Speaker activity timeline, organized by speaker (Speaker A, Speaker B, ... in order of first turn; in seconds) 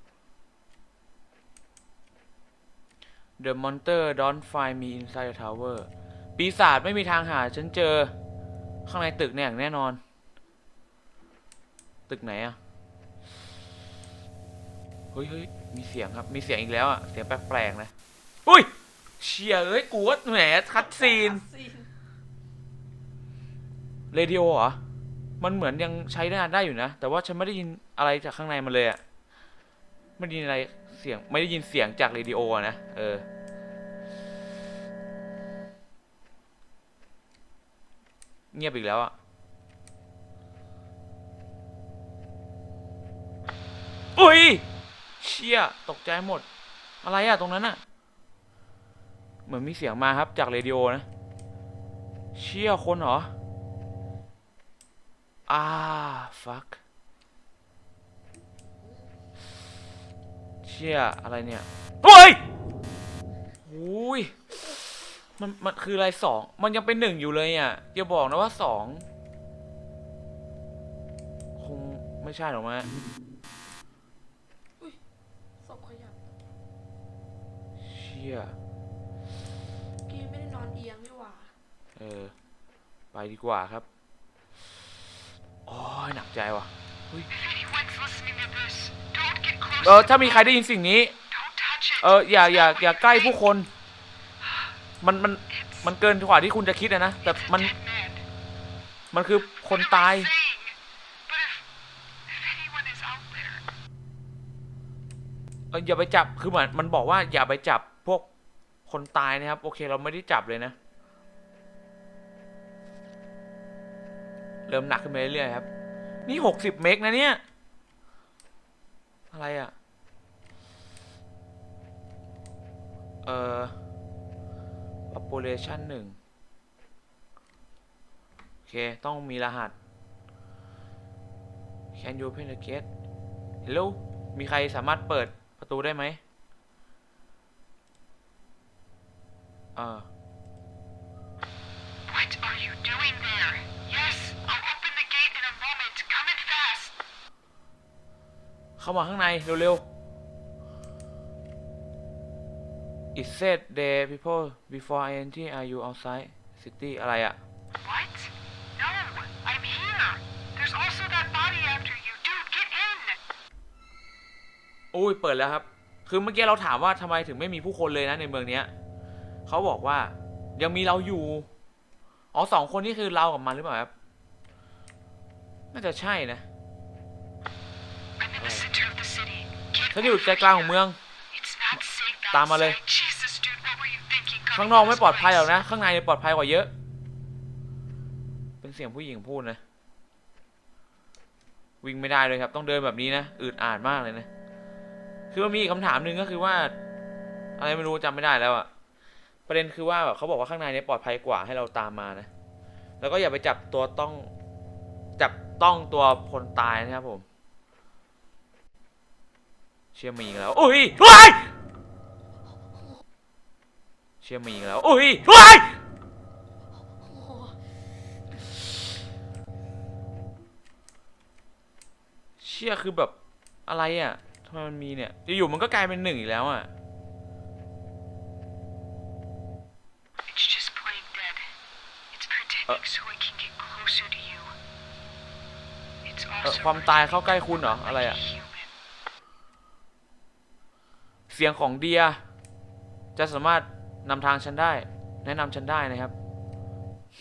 Speaker A: 3.4-8.1, 8.9-10.0, 12.1-12.6, 15.1-17.9, 19.2-21.4, 24.1-24.8, 25.4-29.0, 30.2-33.2, 38.5-39.1, 44.2-44.6, 45.2-46.4, 47.0-47.8, 49.5-51.1, 52.3-53.3, 55.5-56.8, 60.6-62.4, 63.6-69.0, 71.6-72.9, 77.8-78.5, 82.0-82.3, 83.1-83.9, 85.7-87.3, 89.8-91.1, 92.0-93.7, 95.0-97.8, 99.1-100.3, 105.7-108.3, 108.9-110.8, 114.7-115.7, 116.3-117.4, 119.3-119.7, 123.2-123.7, 125.1-126.2, 128.7-129.7, 131.9-132.8, 133.7-136.2, 139.8-140.1, 148.8-149.8, 153.2-157.4, 164.9-168.7, 169.5-171.5, 172.3-173.9, 175.7-176.4, 178.4-178.7, 179.9-181.0, 182.3-182.8, 184.5-186.7, 188.6-189.6, 191.8-194.3, 195.3-196.7, 197.6-198.7, 199.5-202.3, 203.0-204.3, 205.2-207.2, 209.9-211.5, 214.2-215.8, 222.4-223.2, 223.7-226.7, 236.4-238.2, 241.3-242.2, 243.2-246.1
Speaker B: 20.8-21.9, 75.6-76.2, 80.1-81.5, 217.1-217.6
Speaker C: 87.3-90.2, 91.4-92.0, 97.7-98.2, 100.2-100.8, 101.3-101.6, 102.3-103.6, 142.1-146.9, 157.8-163.2, 178.2-179.9, 181.3-185.4, 230.3-231.5, 232.1-234.5, 236.1-237.0, 237.7-238.7